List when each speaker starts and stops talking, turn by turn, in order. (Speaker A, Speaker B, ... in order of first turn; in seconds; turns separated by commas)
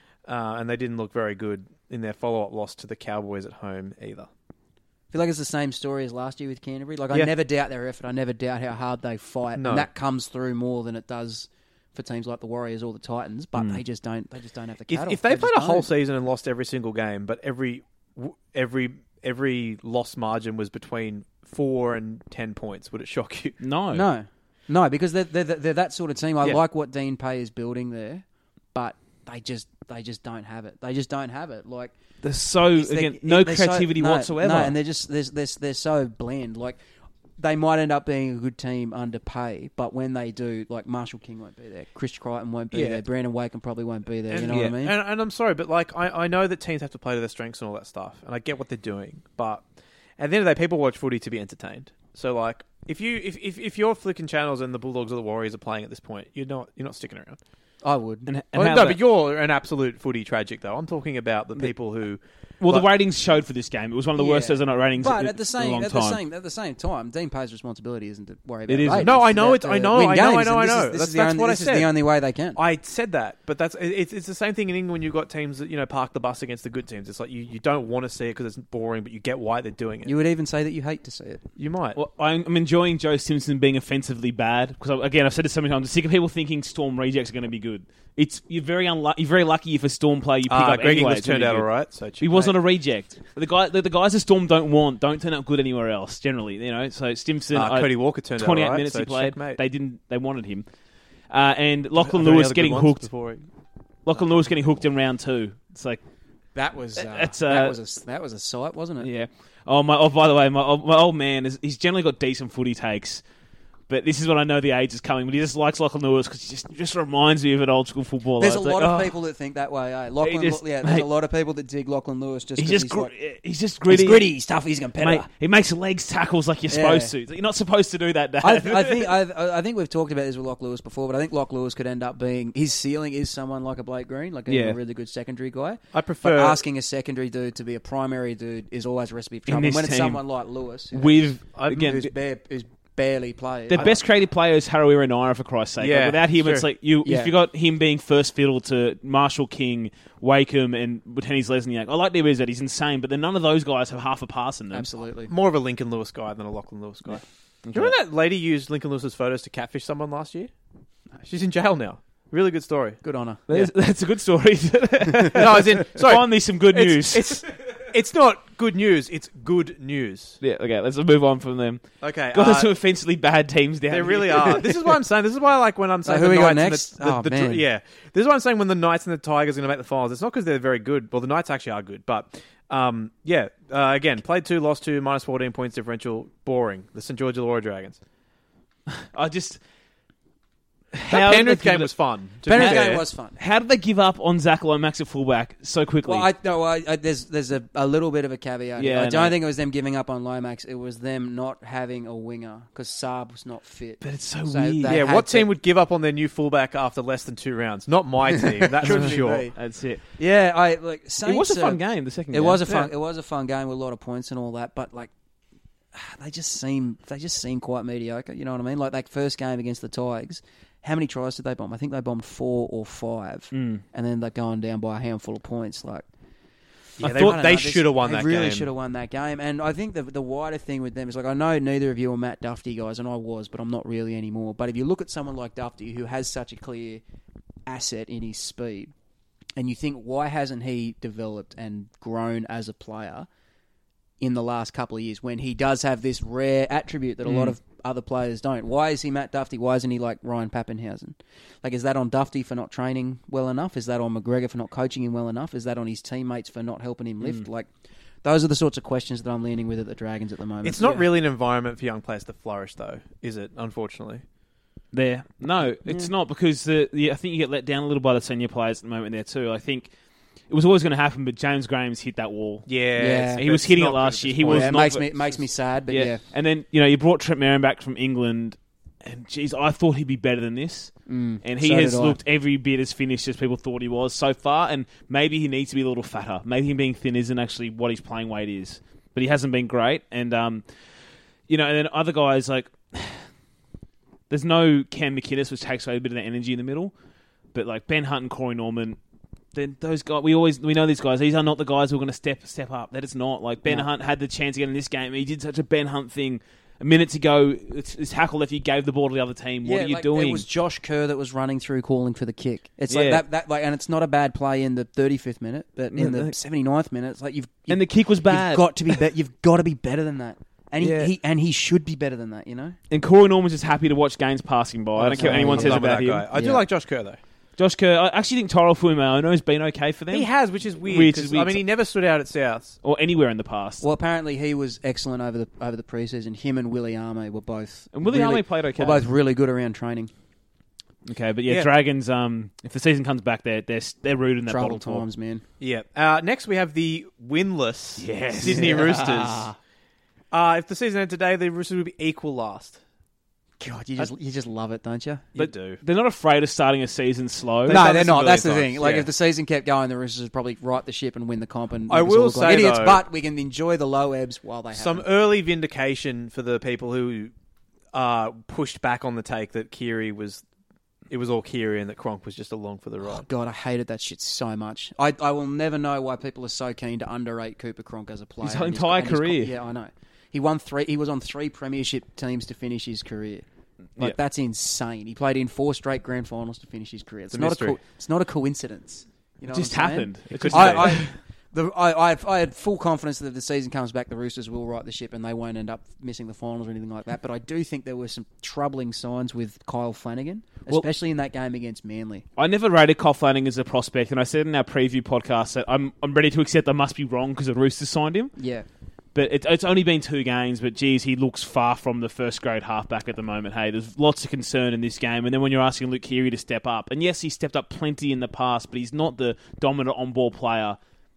Speaker A: 0.2-4.3, Speaker B: 5.1-15.9, Speaker A: 9.6-9.9, Speaker A: 14.9-23.6, Speaker C: 23.6-24.1, Speaker B: 23.9-31.9, Speaker C: 32.2-34.8, Speaker B: 32.7-36.8, Speaker B: 37.4-45.0, Speaker A: 42.7-43.0, Speaker A: 44.3-49.6, Speaker C: 44.5-44.7, Speaker A: 50.2-57.4, Speaker B: 57.8-58.3, Speaker C: 58.3-59.0, Speaker A: 58.5-62.9, Speaker C: 62.6-66.2, Speaker B: 64.2-72.6, Speaker C: 68.7-69.2, Speaker A: 69.0-71.9, Speaker A: 72.5-80.1, Speaker B: 80.0-81.4, Speaker A: 81.6-82.0, Speaker C: 82.0-91.7, Speaker A: 90.5-92.5, Speaker C: 92.2-100.6, Speaker A: 97.5-99.6, Speaker C: 101.3-103.0, Speaker A: 102.0-103.4, Speaker C: 104.0-106.0, Speaker B: 106.5-109.1, Speaker C: 106.9-107.8, Speaker C: 109.0-113.2, Speaker C: 113.9-119.2, Speaker B: 118.4-123.1, Speaker C: 120.2-121.1, Speaker C: 122.6-124.3, Speaker B: 123.9-125.3, Speaker C: 125.0-129.1, Speaker B: 126.7-127.1, Speaker B: 128.4-144.0, Speaker C: 134.5-134.8, Speaker A: 135.9-136.6, Speaker C: 139.5-140.2, Speaker C: 140.9-142.1, Speaker A: 141.5-141.9, Speaker C: 143.7-154.9, Speaker A: 143.7-144.0, Speaker A: 145.8-146.7, Speaker B: 147.0-147.3, Speaker B: 154.7-155.3, Speaker A: 155.3-160.5, Speaker C: 157.7-157.9, Speaker A: 161.2-163.0, Speaker B: 163.0-163.5, Speaker C: 163.5-167.4, Speaker A: 165.3-170.4, Speaker C: 170.4-174.7, Speaker A: 172.0-172.7, Speaker A: 173.9-188.0, Speaker B: 176.0-177.6, Speaker C: 188.9-189.6, Speaker C: 190.9-191.9, Speaker A: 191.1-193.0, Speaker C: 192.4-196.3, Speaker B: 192.4-193.4, Speaker B: 196.0-205.5, Speaker C: 198.8-199.3, Speaker C: 204.0-205.0, Speaker A: 204.8-209.5, Speaker B: 208.3-209.6, Speaker C: 208.8-210.0, Speaker B: 210.1-215.1, Speaker C: 211.2-212.9, Speaker B: 215.9-226.0, Speaker C: 223.5-223.8, Speaker A: 227.0-228.7, Speaker B: 227.0-237.0, Speaker C: 227.0-227.4, Speaker B: 237.7-238.9, Speaker B: 239.6-243.3, Speaker B: 244.2-257.7, Speaker C: 247.2-247.5, Speaker B: 258.2-261.1, Speaker A: 260.6-264.2, Speaker C: 264.9-269.9, Speaker B: 265.9-266.1, Speaker C: 270.5-272.7, Speaker A: 272.7-274.8, Speaker B: 273.0-273.4, Speaker C: 273.4-275.1, Speaker B: 274.4-276.2, Speaker C: 275.9-290.6, Speaker B: 281.1-282.2, Speaker C: 291.5-293.2, Speaker C: 294.3-296.9, Speaker C: 297.5-299.0, Speaker C: 299.5-310.4, Speaker B: 309.6-322.8, Speaker C: 312.9-313.2, Speaker C: 315.9-316.3, Speaker C: 317.7-319.0, Speaker C: 320.8-321.1, Speaker C: 322.9-326.3, Speaker B: 325.0-326.6, Speaker A: 325.1-327.2, Speaker C: 327.6-330.3, Speaker A: 330.1-332.8, Speaker C: 330.8-331.6, Speaker C: 332.8-333.8, Speaker B: 333.8-340.1, Speaker C: 337.9-339.0, Speaker C: 341.1-345.0, Speaker B: 344.5-345.4, Speaker A: 345.6-349.5, Speaker C: 348.0-349.1, Speaker B: 348.4-349.6, Speaker A: 350.3-352.8, Speaker B: 353.6-355.3, Speaker A: 355.3-355.8, Speaker C: 355.4-357.8, Speaker A: 357.6-359.1, Speaker B: 357.7-365.1, Speaker A: 361.9-363.0, Speaker A: 364.7-367.3, Speaker A: 367.9-370.4, Speaker A: 371.1-373.2, Speaker B: 373.0-383.4, Speaker C: 378.4-379.5, Speaker B: 384.0-402.2, Speaker A: 387.3-387.8, Speaker C: 389.5-391.1, Speaker A: 390.3-391.0, Speaker C: 402.4-408.3, Speaker B: 408.4-408.6, Speaker C: 409.1-420.8